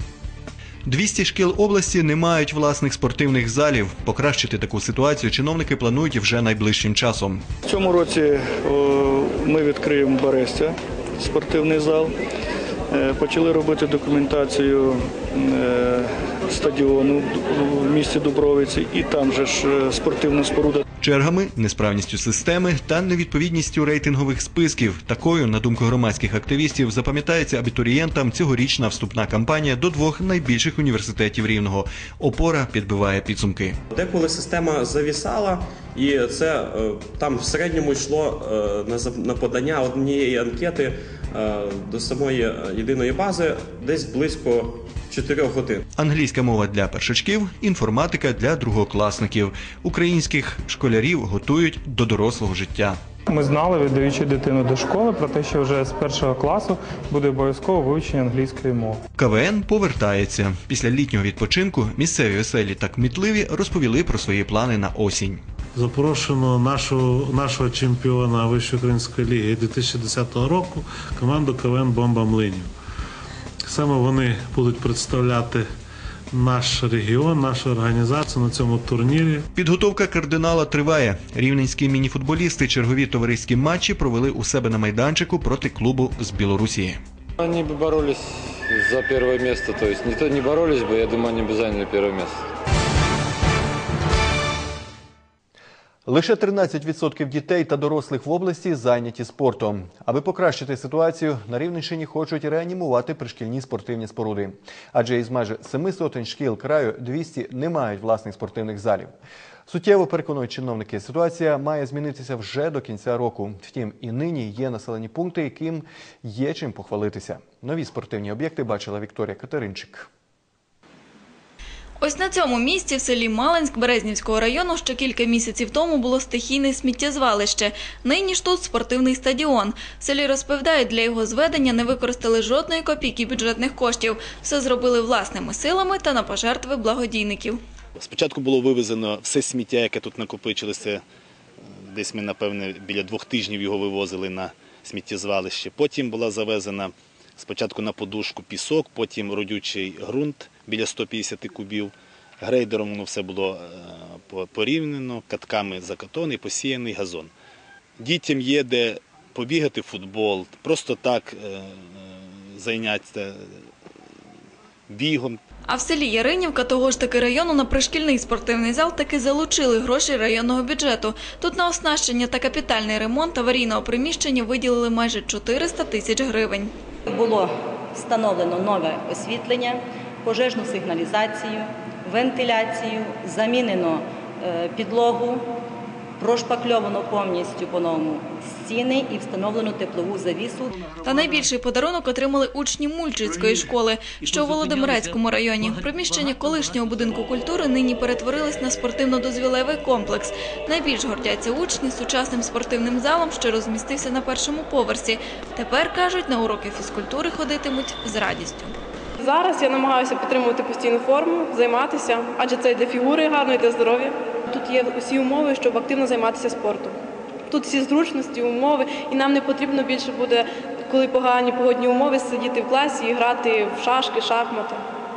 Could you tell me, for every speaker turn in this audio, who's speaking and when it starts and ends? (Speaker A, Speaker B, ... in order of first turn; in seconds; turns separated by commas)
Speaker A: 0.9-7.4, Speaker B: 7.6-12.1, Speaker B: 12.9-20.8, Speaker A: 21.0-33.8, Speaker C: 33.9-45.8, Speaker A: 46.0-53.0, Speaker D: 53.3-59.0, Speaker A: 59.2-65.4, Speaker E: 65.8-72.7, Speaker E: 73.7-75.7, Speaker E: 76.3-79.5, Speaker A: 79.5-87.0, Speaker F: 87.4-92.3, Speaker A: 96.1-109.1, Speaker A: 109.7-120.1, Speaker G: 122.0-137.6, Speaker H: 138.0-141.0, Speaker H: 141.9-157.3, Speaker H: 158.0-163.4, Speaker H: 164.9-165.4, Speaker G: 165.7-176.7, Speaker I: 177.1-185.5, Speaker I: 186.2-190.7, Speaker G: 191.0-208.7, Speaker J: 209.2-216.9, Speaker J: 217.5-224.8